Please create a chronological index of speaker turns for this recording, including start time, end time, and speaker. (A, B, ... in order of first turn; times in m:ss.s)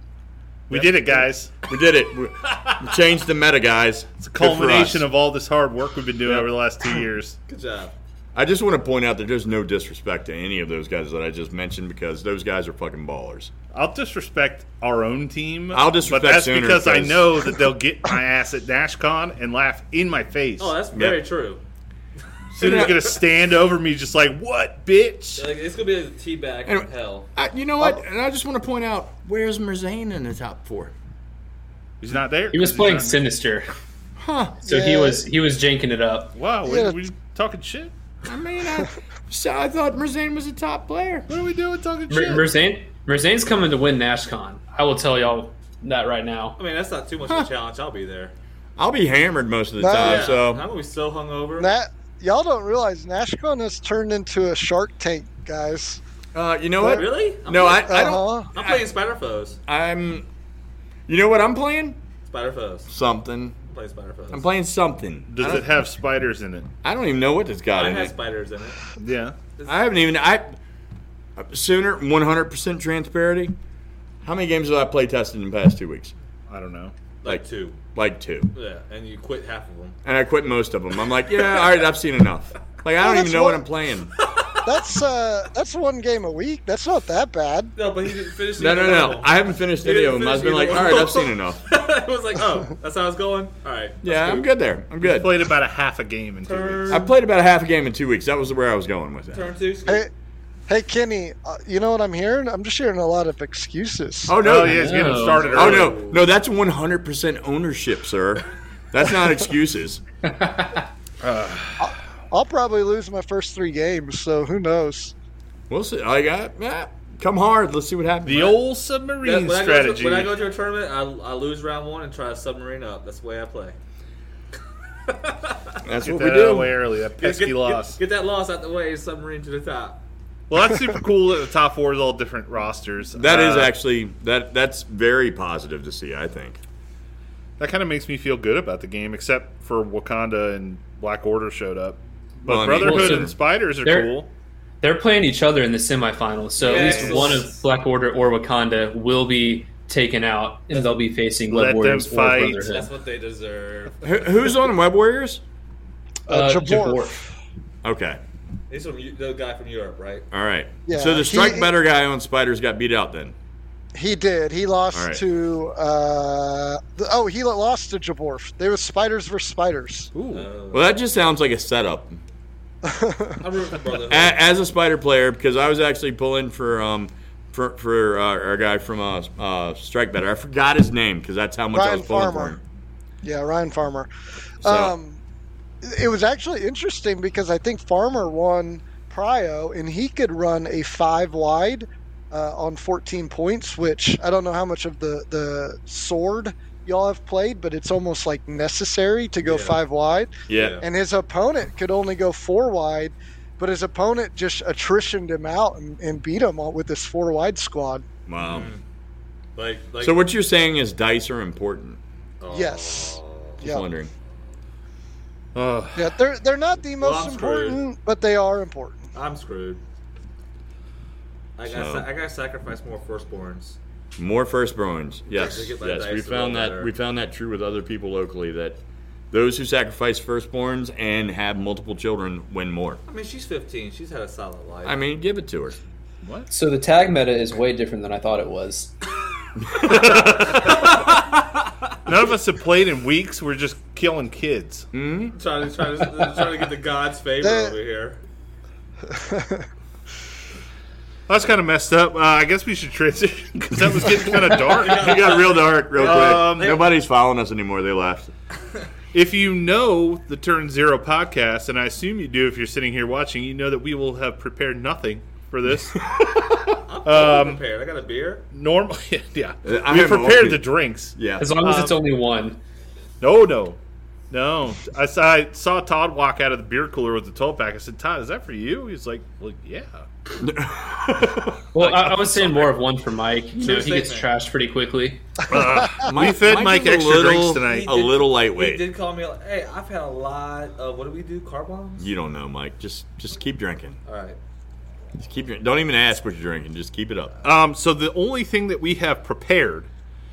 0:00.7-0:01.6 A
0:00.7-0:05.1 B
0:04.2-0:07.4 A
0:07.5-0:07.9 C
0:08.3-0:13.5 B
0:13.7-0:20.8 A
0:15.7-0:17.4 B
0:20.6-0:21.6 C
0:20.9-0:21.2 B
0:22.5-0:25.4 A
0:22.6-0:23.0 B
0:22.6-0:23.2 C
0:25.4-0:27.3 C
0:26.7-0:30.9 B
0:32.0-0:33.2 A
0:32.5-0:33.7 D
0:34.2-0:34.6 B
0:34.6-0:35.2 E
0:34.6-0:36.4 D
0:36.4-0:37.9 A
0:36.6-0:37.0 E
0:38.2-0:41.3 B
0:41.3-0:42.5 A
0:42.1-0:46.6 D
0:46.6-0:48.3 C
0:47.2-0:47.5 B
0:48.8-0:50.6 B
0:49.8-0:50.4 E
0:50.0-0:51.8 C
0:51.6-0:56.0 E
0:56.3-0:58.9 B
0:56.8-0:57.0 E
0:56.8-0:59.6 C
0:57.8-0:58.5 E
0:59.7-1:00.3 B
1:01.1-1:02.0 B
1:02.3-1:02.9 C
1:02.9-1:03.6 B
1:03.7-1:04.5 C
1:04.3-1:05.7 B
1:05.3-1:06.7 A
1:06.8-1:08.1 B
1:07.7-1:08.8 C
1:09.0-1:09.4 A
1:09.6-1:10.6 B
1:11.4-1:13.6 B
1:14.2-1:16.1 B
1:16.5-1:16.9 A
1:17.2-1:17.8 C
1:17.2-1:18.5 B
1:18.5-1:20.0 C
1:20.0-1:24.2 B
1:23.0-1:23.6 E
1:24.3-1:24.6 C
1:24.6-1:27.7 E
1:27.8-1:34.5 C
1:28.6-1:31.6 B
1:34.0-1:35.3 B
1:35.0-1:37.0 A
1:36.5-1:37.0 C
1:36.9-1:39.5 B
1:39.3-1:40.0 C
1:40.7-1:44.4 E
1:44.3-1:44.9 B
1:44.4-1:46.0 A
1:44.4-1:45.6 D
1:45.2-1:46.2 C
1:45.6-1:50.0 B
1:51.2-1:51.9 A
1:51.8-1:55.1 E
1:55.7-1:58.5 B
1:58.2-2:00.4 A
1:59.2-2:03.8 C
2:05.1-2:05.8 C
2:05.8-2:06.8 B
2:06.0-2:08.0 A
2:07.2-2:10.0 C
2:10.5-2:13.7 A
2:13.2-2:16.6 B
2:17.6-2:24.3 A
2:22.5-2:23.3 B
2:22.8-2:24.2 D
2:24.8-2:32.9 D
2:26.6-2:27.5 C
2:26.6-2:27.5 A
2:31.5-2:32.7 A
2:32.7-2:34.6 C
2:34.0-2:35.4 B
2:36.3-2:37.2 D
2:36.3-2:37.2 E
2:37.8-2:38.2 B
2:38.7-2:40.3 C
2:40.3-2:43.4 B
2:40.9-2:41.7 E
2:44.0-2:50.1 E
2:44.9-2:45.2 B
2:50.2-2:50.5 A
2:50.3-2:50.9 C
2:50.7-2:52.2 B
2:52.8-2:53.4 E
2:53.4-2:54.4 C
2:54.1-3:02.6 B
3:01.8-3:02.6 E
3:03.2-3:04.1 E
3:04.6-3:05.2 E
3:04.6-3:04.9 B
3:05.8-3:28.1 E
3:19.4-3:19.8 C
3:20.5-3:20.8 B
3:20.5-3:20.9 C
3:28.3-3:28.7 B
3:28.4-3:28.8 C
3:29.6-3:30.3 C
3:30.0-3:32.0 B
3:32.4-3:33.6 C
3:32.5-3:33.9 E
3:33.6-3:34.1 B
3:35.6-3:36.2 A
3:36.0-3:39.1 E
3:37.0-3:37.8 C
3:39.1-3:39.8 C
3:41.6-3:43.8 C
3:41.7-3:42.1 B
3:44.2-3:53.0 B
3:45.4-3:46.9 C
3:53.1-3:55.0 C
3:54.8-3:55.8 B
3:56.2-3:56.5 A
3:56.5-3:58.9 D
3:59.8-4:01.1 A
4:02.1-4:04.9 A
4:04.9-4:05.3 B
4:05.4-4:08.2 C
4:07.4-4:07.8 E
4:09.1-4:09.7 E
4:11.3-4:15.2 A
4:14.6-4:16.9 C
4:14.8-4:18.3 B
4:16.0-4:16.8 A
4:19.1-4:26.0 A
4:26.9-4:28.4 C
4:27.0-4:27.6 A
4:28.5-4:32.0 A
4:29.6-4:31.6 B
4:31.4-4:32.6 D
4:33.2-4:33.8 A
4:34.3-4:40.0 A
4:40.4-4:41.5 B
4:41.7-4:45.2 D
4:41.8-4:42.7 A
4:43.6-4:44.3 C
4:45.5-4:47.9 A
4:45.9-4:48.9 B
4:47.1-4:52.1 C
4:52.0-4:54.0 B
4:54.1-4:54.4 C
4:55.2-4:57.3 B
4:57.4-4:59.9 A